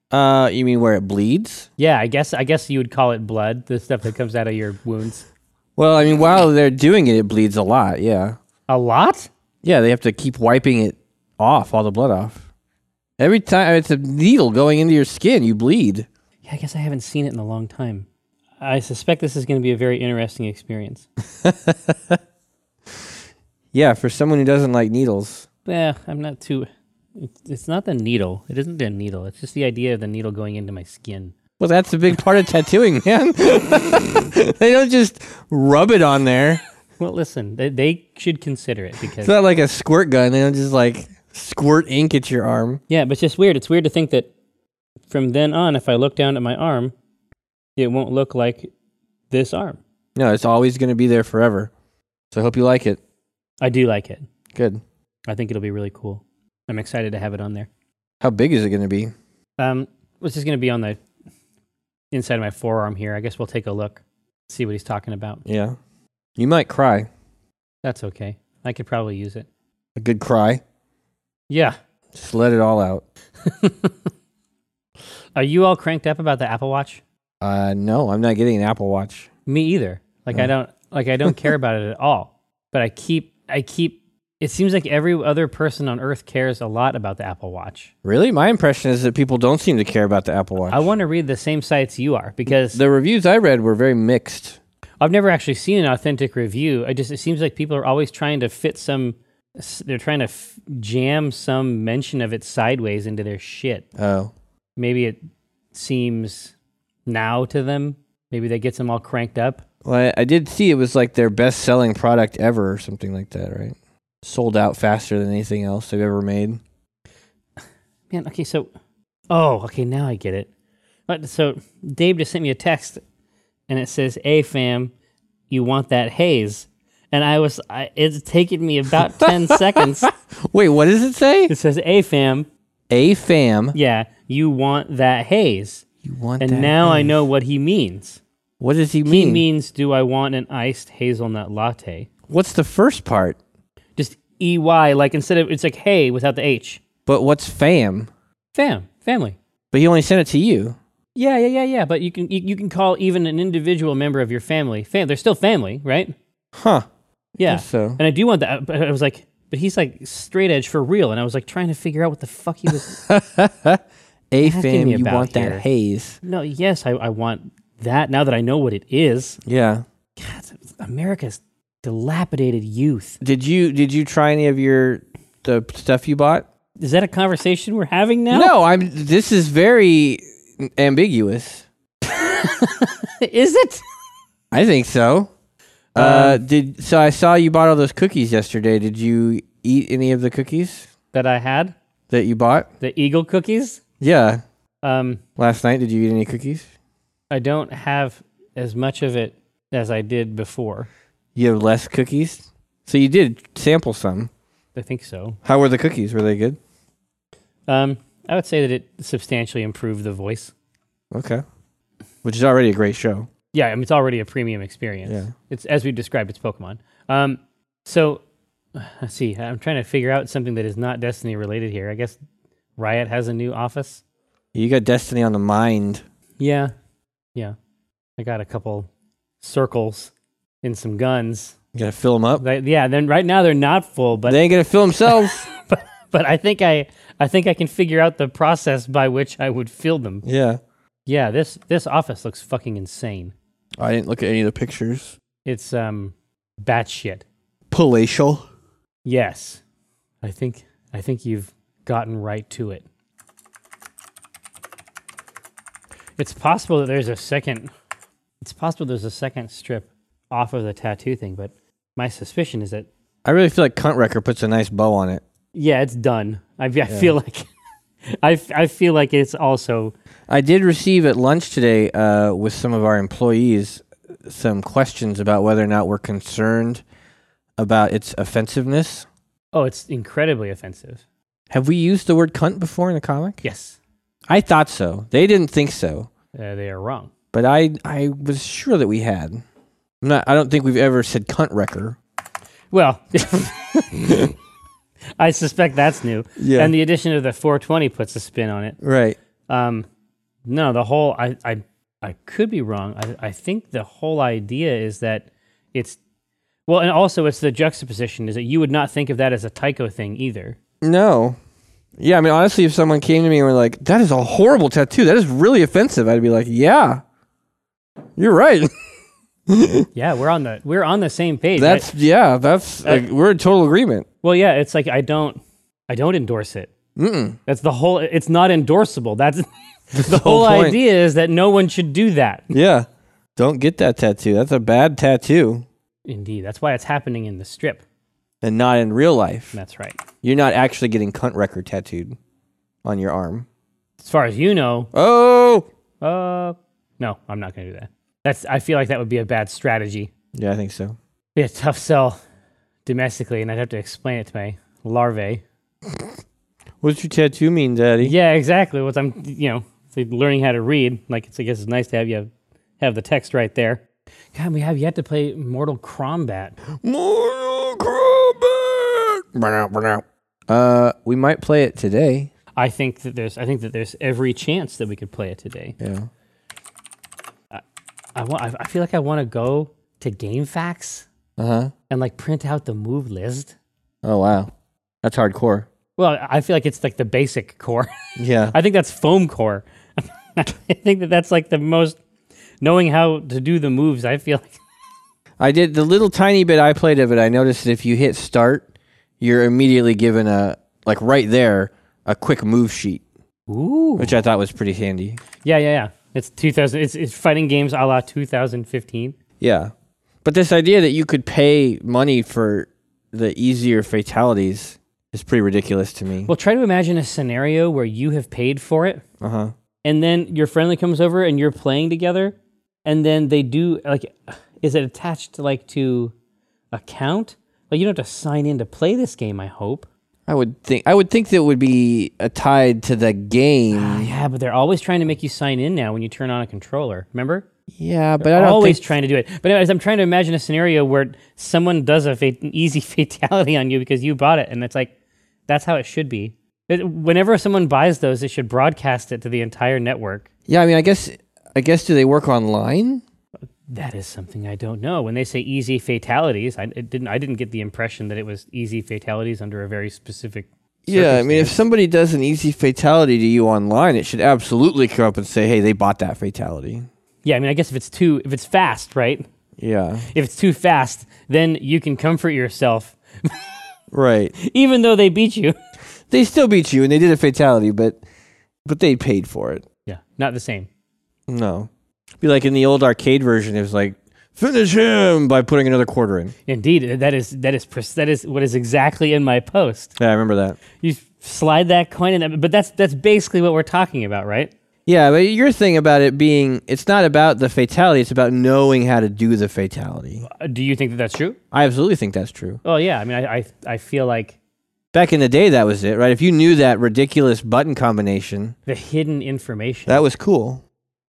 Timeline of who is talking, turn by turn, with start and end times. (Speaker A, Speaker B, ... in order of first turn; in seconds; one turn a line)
Speaker A: 0.1-1.7
Speaker B: 1.8-5.2
Speaker A: 5.8-8.4
Speaker B: 8.7-9.3
Speaker A: 9.6-12.4
Speaker A: 13.2-16.1
Speaker B: 16.4-18.1
Speaker B: 18.6-21.1
Speaker A: 21.4-22.2
Speaker A: 23.7-25.4
Speaker B: 25.6-31.3
Speaker A: 31.6-36.6
Speaker B: 37.0-39.3
Speaker A: 39.2-42.8
Speaker B: 42.9-44.3
Speaker B: 45.1-46.9
Speaker B: 47.8-48.7
Speaker B: 49.3-49.8
Speaker A: 50.1-51.7
Speaker A: 52.3-53.0
Speaker B: 53.6-54.2
Speaker A: 54.5-54.8
Speaker B: 55.3-57.7
Speaker A: 58.2-59.1
Speaker B: 59.6-61.0
Speaker B: 62.1-65.4
Speaker A: 65.5-65.8
Speaker A: 66.4-67.1
Speaker B: 67.8-69.5
Speaker A: 70.0-70.6
Speaker B: 71.5-71.8
Speaker A: 72.1-73.0
Speaker B: 73.4-73.9
Speaker B: 75.3-77.0
Speaker A: 77.4-79.3
Speaker B: 79.5-87.9
Speaker A: 88.0-90.9
Speaker B: 90.7-92.8
Speaker A: 92.5-94.6
Speaker B: 95.0-103.8
Speaker A: 104.0-104.3
Speaker B: 104.8-105.2
Speaker B: 105.7-106.5
Speaker B: 107.1-109.6
Speaker A: 109.8-116.6
Speaker B: 118.1-118.7
Speaker B: 119.3-120.5
Speaker B: 121.1-123.0
Speaker B: 123.7-124.9
Speaker B: 125.5-130.1
Speaker A: 129.1-131.5
Speaker B: 131.5-132.5
Speaker A: 132.9-133.8
Speaker B: 133.7-135.8
Speaker A: 136.0-137.2
Speaker B: 136.4-138.2
Speaker A: 138.6-139.4
Speaker B: 139.1-142.1
Speaker A: 142.3-143.4
Speaker B: 144.0-146.8
Speaker A: 147.1-148.1
Speaker B: 148.5-149.4
Speaker A: 149.7-150.8
Speaker B: 151.1-156.1
Speaker A: 156.5-156.9
Speaker B: 157.4-163.0
Speaker A: 157.4-158.0
Speaker A: 162.9-166.2
Speaker B: 164.4-165.6
Speaker B: 166.2-169.4
Speaker A: 169.4-169.8
Speaker B: 170.2-173.2
Speaker A: 173.2-176.4
Speaker B: 176.8-178.5
Speaker A: 178.3-181.7
Speaker B: 182.1-183.8
Speaker A: 184.5-185.3
Speaker B: 185.9-186.4
Speaker A: 185.9-190.9
Speaker B: 191.1-191.8
Speaker A: 192.1-192.7
Speaker B: 192.8-193.8
Speaker A: 194.0-194.4
Speaker B: 194.8-195.2
Speaker A: 195.4-196.7
Speaker B: 197.3-200.9
Speaker A: 201.3-204.3
Speaker B: 204.7-205.4
Speaker A: 205.4-206.6
Speaker B: 207.7-210.5
Speaker A: 211.1-211.4
Speaker A: 212.2-213.3
Speaker B: 213.5-218.2
Speaker A: 215.1-215.3
Speaker B: 218.7-222.2
Speaker B: 222.8-224.0
Speaker A: 224.5-226.0
Speaker B: 226.4-226.7
Speaker B: 228.2-228.9
Speaker B: 229.4-231.5
Speaker A: 231.7-232.4
Speaker B: 232.4-234.4
Speaker A: 234.3-235.4
Speaker B: 235.1-240.2
Speaker A: 240.2-240.6
Speaker B: 241.1-243.3
Speaker A: 243.8-245.2
Speaker B: 245.4-247.2
Speaker A: 247.7-248.4
Speaker B: 249.0-249.6
Speaker B: 250.2-252.8
Speaker B: 256.2-257.7
Speaker B: 258.4-262.9
Speaker A: 263.2-265.2
Speaker B: 265.5-267.5
Speaker A: 266.9-267.1
Speaker B: 268.1-269.9
Speaker A: 270.3-276.8
Speaker A: 277.6-279.1
Speaker B: 279.5-281.0
Speaker A: 281.5-283.4
Speaker B: 283.4-283.8
Speaker A: 284.3-286.1
Speaker B: 286.3-287.1
Speaker A: 287.3-289.4
Speaker A: 290.0-292.0
Speaker B: 292.7-294.3
Speaker B: 295.2-298.8
Speaker A: 296.4-296.7
Speaker A: 298.8-299.2
Speaker B: 299.5-299.9
Speaker B: 300.4-306.0
Speaker B: 306.7-310.6
Speaker A: 310.8-311.4
Speaker A: 312.0-317.0
Speaker A: 318.2-318.7
Speaker A: 319.5-319.9
Speaker B: 319.9-321.9
Speaker A: 321.6-324.0
Speaker B: 324.2-326.7
Speaker A: 326.9-327.4
Speaker B: 327.4-332.5
Speaker A: 329.9-330.8
Speaker A: 332.5-332.9
Speaker A: 333.4-335.6
Speaker B: 336.1-337.8
Speaker A: 338.4-339.5
Speaker B: 339.5-340.0
Speaker A: 340.2-342.2
Speaker A: 342.8-343.4
Speaker B: 344.0-344.9
Speaker A: 344.9-345.6
Speaker B: 346.0-350.1
Speaker A: 350.3-350.9
Speaker B: 351.4-352.2
Speaker B: 352.9-355.4
Speaker A: 356.8-358.1
Speaker B: 358.0-362.3
Speaker B: 362.8-366.6
Speaker A: 366.7-372.3
Speaker B: 372.6-375.8
Speaker A: 375.8-376.1
Speaker B: 378.1-381.1
Speaker A: 381.4-381.7
Speaker B: 381.9-383.5
Speaker A: 384.0-384.5
Speaker A: 385.0-385.7
Speaker B: 386.0-387.9
Speaker A: 388.2-388.5
Speaker B: 388.5-392.0
Speaker B: 392.6-394.6
Speaker A: 395.4-398.6
Speaker A: 399.2-403.0
Speaker B: 403.5-404.2
Speaker A: 404.0-405.2
Speaker B: 405.4-409.1
Speaker A: 409.4-409.7
Speaker A: 410.2-416.3
Speaker B: 416.2-419.0
Speaker A: 419.2-419.5
Speaker B: 419.8-426.1
Speaker B: 426.7-429.9
Speaker A: 430.3-434.1
Speaker B: 433.7-437.4
Speaker A: 437.7-438.9
Speaker B: 438.2-444.9
Speaker B: 445.5-450.3
Speaker A: 450.5-453.0
Speaker B: 453.7-461.6
Speaker A: 460.9-466.9
Speaker B: 467.2-469.3
Speaker A: 469.6-470.1
Speaker B: 470.1-473.4
Speaker A: 473.9-474.3
Speaker B: 474.4-475.6
Speaker A: 476.1-478.0
Speaker A: 478.6-479.6
Speaker B: 479.9-480.7
Speaker A: 481.3-481.7
Speaker A: 482.2-486.3
Speaker B: 486.5-489.9
Speaker A: 490.0-490.6
Speaker B: 490.8-494.5
Speaker A: 494.9-500.2
Speaker B: 500.3-501.4
Speaker A: 501.5-502.6
Speaker B: 502.6-504.4
Speaker A: 504.9-508.6
Speaker B: 508.7-510.0
Speaker A: 509.9-510.6